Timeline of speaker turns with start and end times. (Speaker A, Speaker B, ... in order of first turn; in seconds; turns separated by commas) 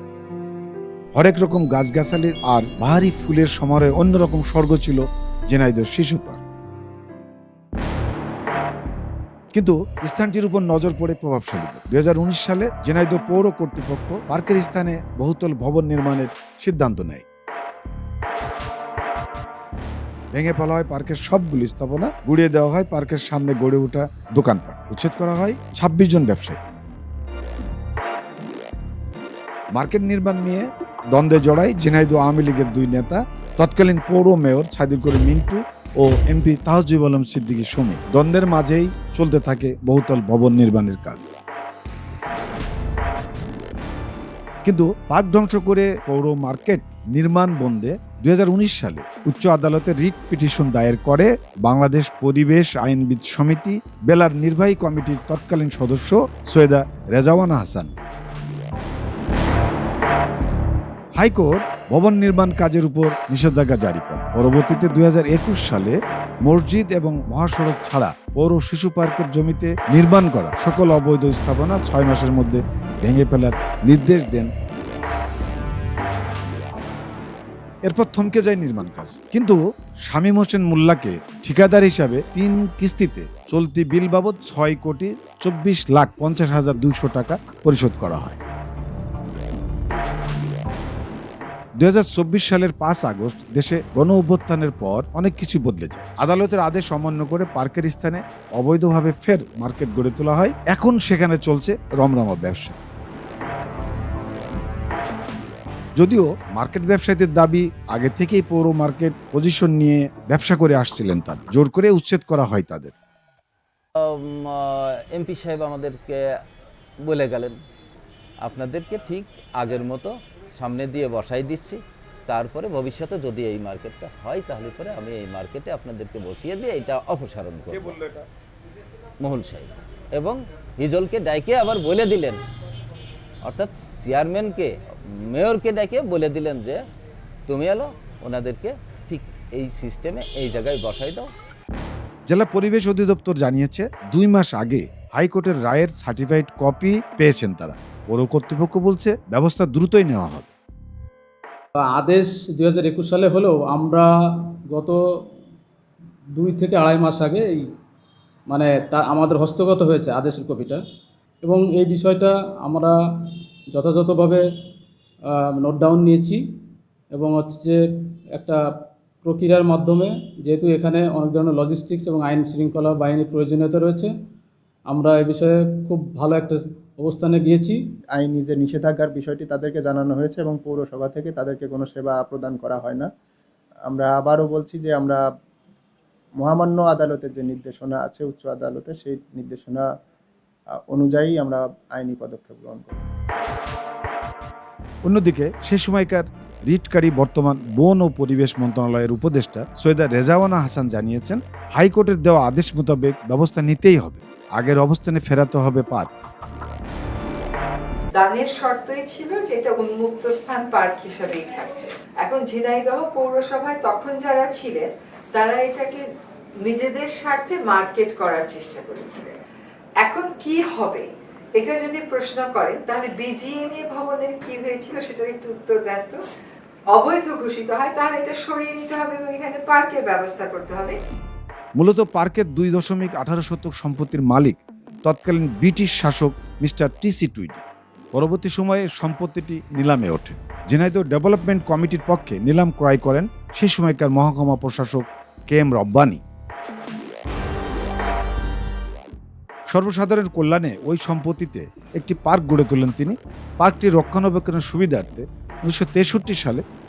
Speaker A: 1.1-6.4, Speaker A: 9.5-17.2, Speaker A: 20.3-26.6, Speaker A: 29.7-41.3, Speaker A: 44.6-57.9, Speaker A: 61.2-74.5, Speaker A: 77.8-88.4, Speaker A: 91.8-102.8, Speaker A: 106.0-112.9, Speaker B: 114.0-116.2, Speaker B: 117.0-117.6, Speaker B: 118.4-128.0, Speaker A: 127.7-128.3, Speaker B: 129.2-132.4, Speaker B: 133.4-136.8, Speaker B: 137.5-141.3, Speaker A: 142.3-150.5, Speaker C: 151.8-155.0, Speaker C: 156.3-157.6, Speaker C: 158.5-160.8, Speaker C: 161.4-164.4, Speaker C: 165.3-166.4, Speaker C: 167.1-167.8, Speaker C: 168.3-168.6, Speaker C: 169.2-174.1, Speaker C: 174.9-177.8, Speaker D: 178.1-183.1, Speaker D: 183.9-185.2, Speaker D: 186.4-189.9, Speaker D: 190.8-193.0, Speaker A: 195.1-206.1, Speaker E: 208.2-211.7, Speaker E: 212.3-216.0, Speaker E: 216.7-219.3, Speaker E: 220.0-226.2, Speaker E: 226.9-231.0, Speaker A: 231.8-237.6, Speaker A: 238.1-246.2, Speaker A: 249.7-256.6